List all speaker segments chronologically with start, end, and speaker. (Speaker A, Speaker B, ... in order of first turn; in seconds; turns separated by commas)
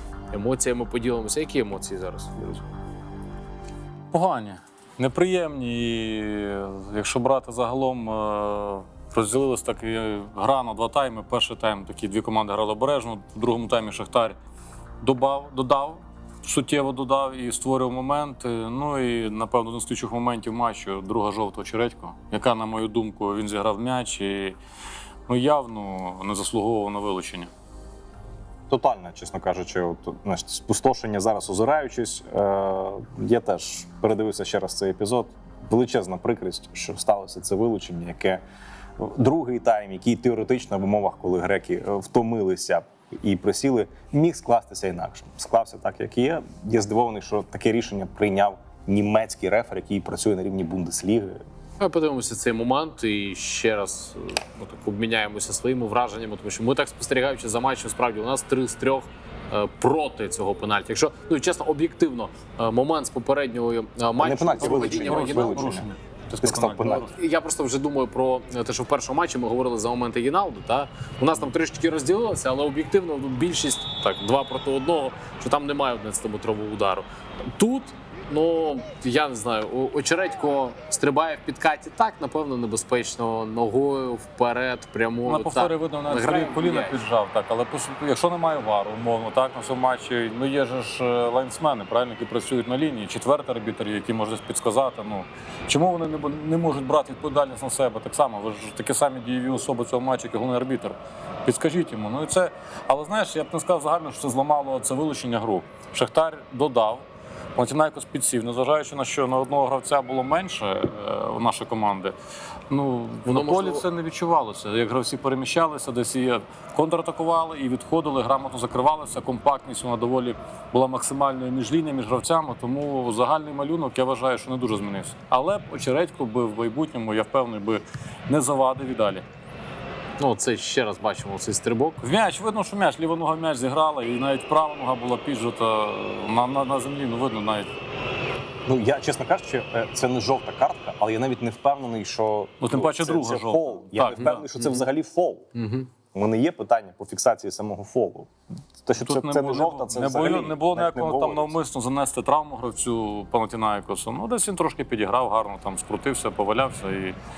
Speaker A: 0.3-2.6, Speaker B: 4.1-14.4, Speaker B: 15.0-24.6, Speaker B: 25.3-27.5, Speaker C: 28.7-38.4, Speaker C: 39.0-51.4, Speaker A: 51.8-65.7, Speaker C: 64.2-65.9, Speaker B: 64.6-67.1, Speaker C: 66.4-67.1, Speaker A: 66.9-87.0, Speaker B: 85.2-112.2, Speaker B: 112.7-129.2, Speaker A: 113.2-113.8, Speaker A: 130.2-132.0, Speaker B: 132.0-137.7, Speaker C: 138.7-145.5, Speaker B: 142.6-144.5, Speaker A: 145.6-145.9, Speaker C: 146.1-148.3, Speaker C: 148.8-151.5, Speaker B: 148.9-157.2